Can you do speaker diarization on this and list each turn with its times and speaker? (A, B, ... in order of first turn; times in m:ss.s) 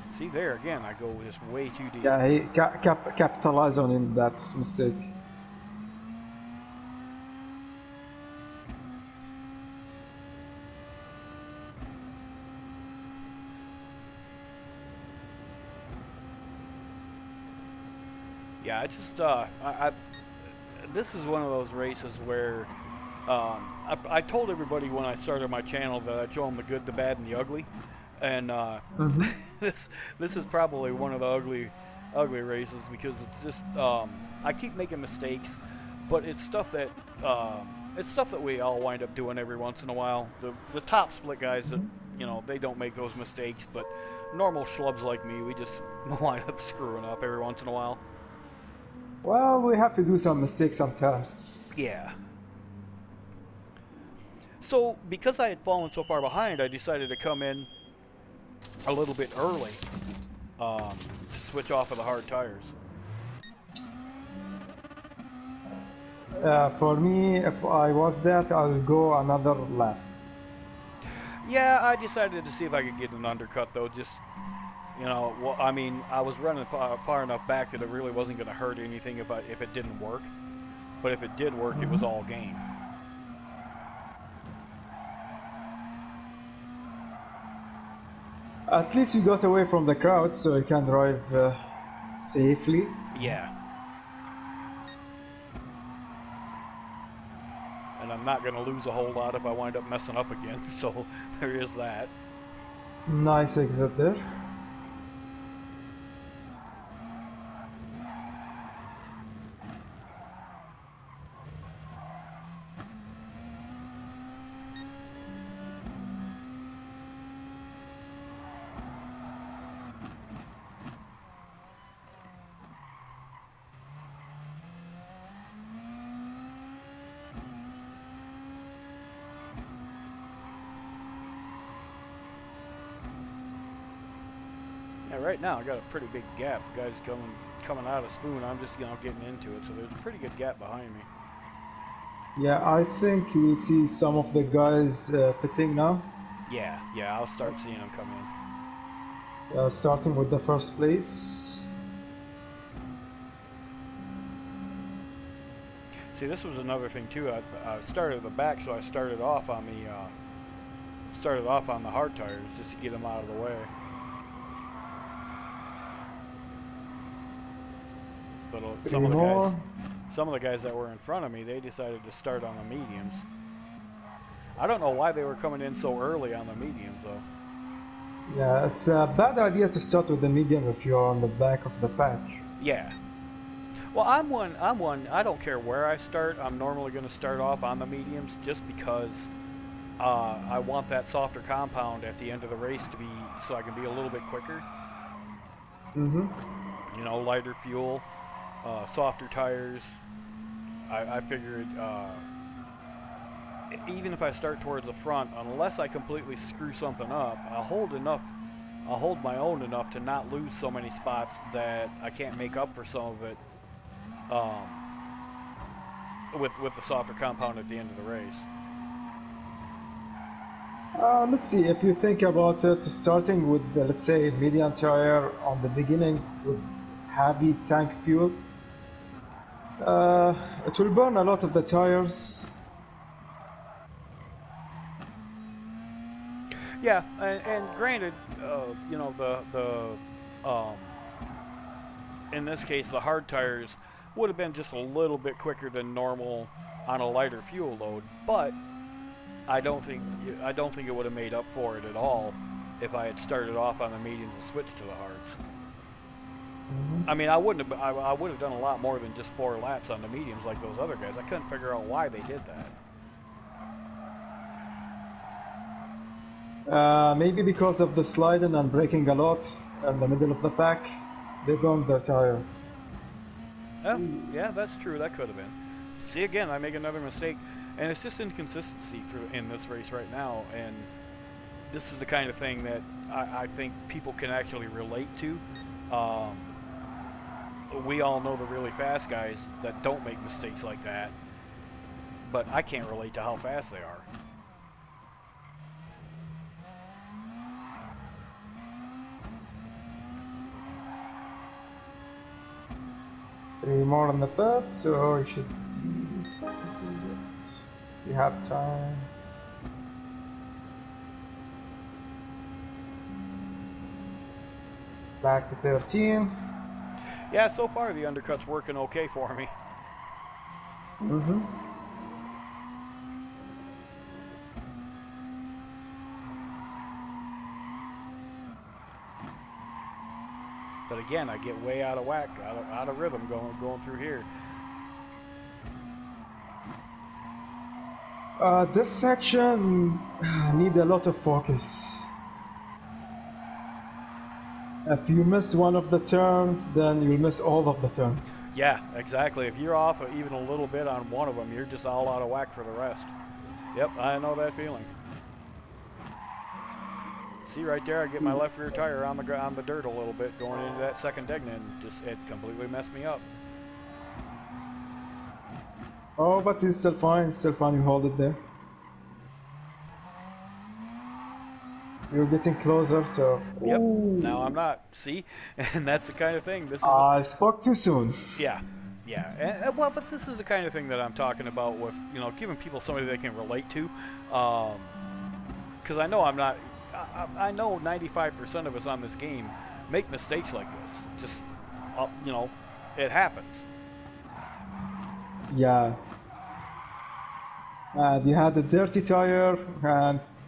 0:00.1-0:02.2 A
0:02.0-0:05.1 B
0:18.6-0:20.0 A
0:20.8-0:22.7 A
0:23.3-0:27.7 A
0:28.2-0:48.0 A
0:29.0-0:29.3 B
0:49.2-0:51.6 B
0:51.7-0:52.1 A
0:54.6-0:57.7 A
0:58.8-0:59.8 A
1:00.6-1:02.7 A
1:06.4-1:10.0 B
1:11.4-1:14.2 A
1:15.0-1:20.3 A
1:21.0-1:22.6 A
1:21.7-1:22.0 B
1:28.7-1:31.6 B
1:32.1-1:33.3 B
1:33.1-1:33.5 A
1:38.0-1:42.1 A
1:43.1-1:44.2 B
2:15.0-2:21.1 A
2:22.4-2:26.1 B
2:26.5-2:28.3 A
2:29.5-2:31.6 B
2:36.1-2:40.1 A
2:41.1-2:43.7 A
2:48.5-2:49.5 A
2:48.8-2:49.6 B
2:50.1-2:53.2 A
2:54.6-2:57.2 A
2:58.3-3:02.4 B
3:02.6-3:03.0 A
3:03.9-3:09.3 A
3:10.0-3:14.7 A
3:15.9-3:16.4 B
3:16.9-3:18.0 A
3:18.6-3:20.0 A
3:20.9-3:22.2 A
3:23.7-3:28.3 A
3:28.8-3:33.4 A
3:34.3-3:34.8 A
3:36.3-3:38.4 A
3:41.0-3:48.4 B
3:49.8-3:52.6 B
3:56.8-4:01.0 A
4:02.3-4:08.6 A
4:09.5-4:15.3 A
4:16.7-4:17.1 B
4:17.0-4:22.7 A
4:26.7-4:30.9 B
4:31.4-4:32.5 B
4:33.8-4:40.9 A
4:33.9-4:34.3 B
4:41.7-4:46.5 A
4:47.7-4:51.1 A
4:52.2-4:54.1 A
5:03.6-5:07.5 B
5:08.0-5:09.1 B
5:15.2-5:16.3 B
5:17.3-5:19.5 A
5:21.0-5:21.5 B
5:30.9-5:34.3 A
5:38.4-5:42.1 B
5:44.8-5:48.3 B
5:48.5-5:53.1 A
5:53.7-5:54.9 A
5:57.4-6:03.2 A
5:58.2-5:59.0 B
6:06.2-6:08.4 B
6:12.1-6:14.5 B
6:13.6-6:17.1 A
6:16.8-6:18.2 B
6:18.4-6:24.9 A
6:25.8-6:33.6 A
6:35.5-6:36.0 B
6:37.9-6:40.2 B